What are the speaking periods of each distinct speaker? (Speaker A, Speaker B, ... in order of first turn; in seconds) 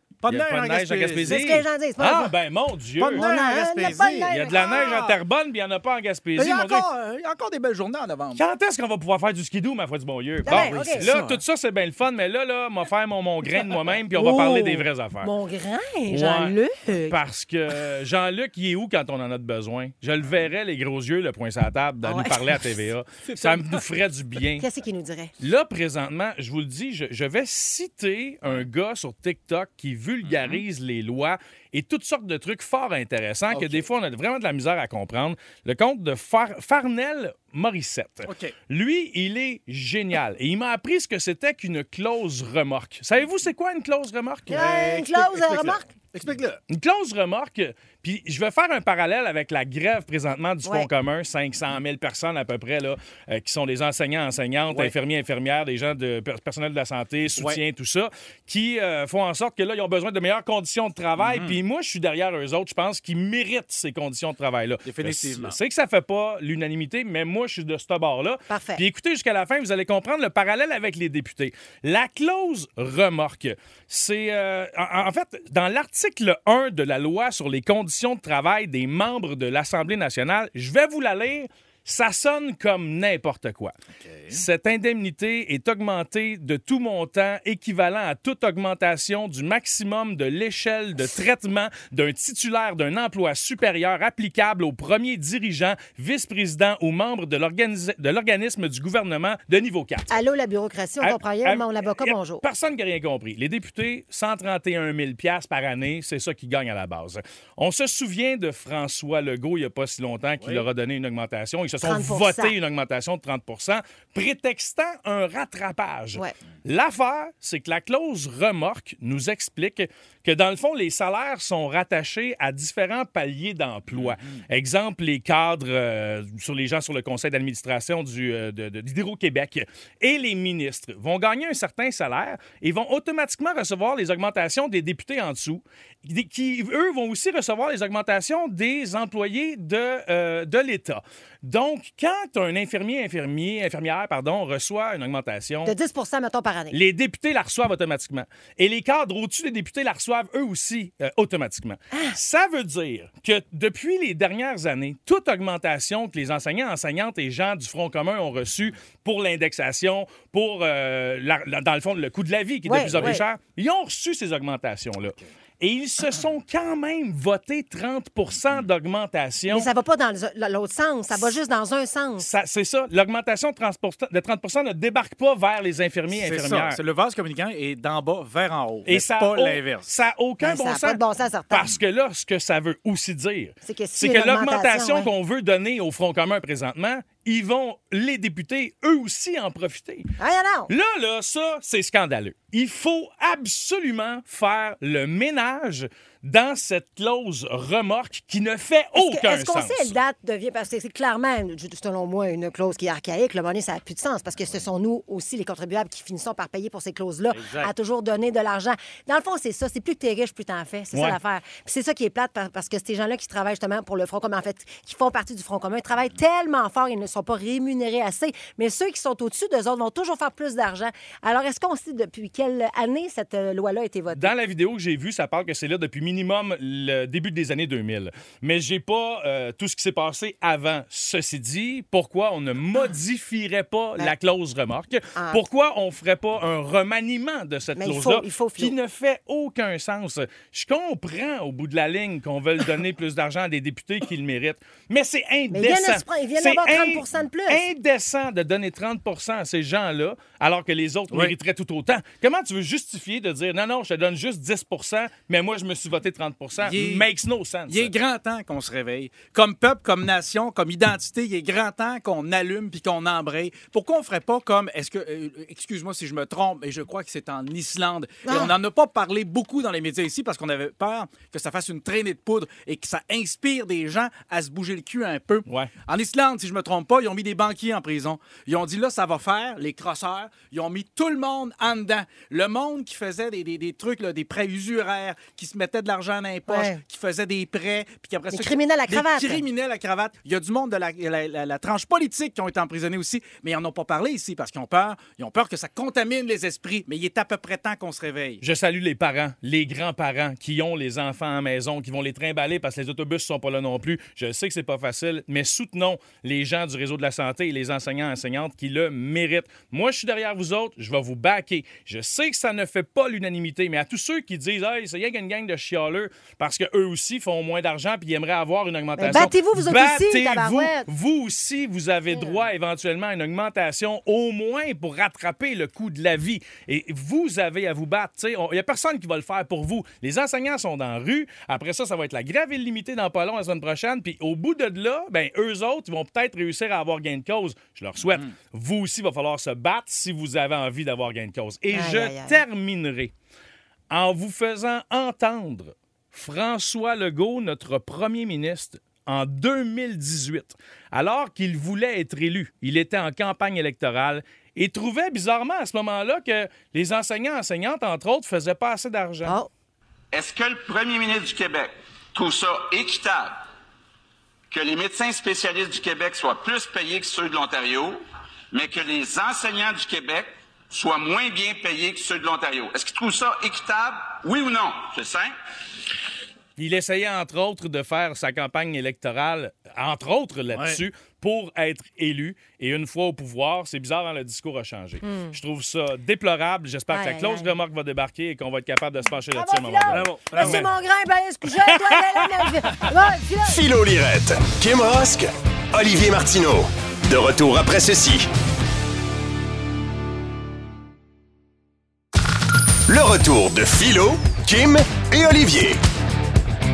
Speaker A: 0.2-1.6, 3.0-5.2, 6.3-8.4, 10.4-11.4, 23.3-23.8, 30.2-30.6, 33.5-33.9, 38.2-38.5, 44.5-46.6, 61.2-61.6, 64.8-65.6, 84.0-84.4, 123.9-124.4, 176.1-179.9, 256.6-257.1, 257.7-298.4, 380.5-380.8, 389.9-390.6
Speaker B: 0.3-3.2, 4.3-6.9, 8.4-15.3, 16.1-16.6, 17.1-24.6, 25.4-44.7, 46.7-83.7, 84.3-100.1, 101.0-145.7, 146.7-169.7, 172.2-176.8, 178.9-190.1, 190.7-199.9, 210.9-211.2, 224.1-257.9, 275.5-275.7, 298.4-343.1, 343.9-359.4, 376.6-390.7, 391.7-392.4
Speaker C: 1.2-2.3, 3.1-5.0, 10.4-11.1, 14.2-17.2, 22.0-22.7, 24.6-25.3, 44.5-45.9, 68.5-68.8, 100.1-102.4, 111.8-112.5, 145.6-146.8, 162.7-163.2, 169.5-172.3, 180.4-181.7, 183.6-185.1, 190.2-190.7, 198.9-224.3, 235.2-235.4, 237.8-238.7, 245.5-247.6, 268.2-268.5, 286.5-286.8, 288.3-289.4, 319.0-320.9, 322.1-322.4, 341.7-342.4, 359.2-359.5, 385.0-385.3, 386.9-387.5, 389.3-393.6
Speaker D: 360.1-363.4, 364.5-375.3
Speaker E: 393.4-398.3, 402.9-405.8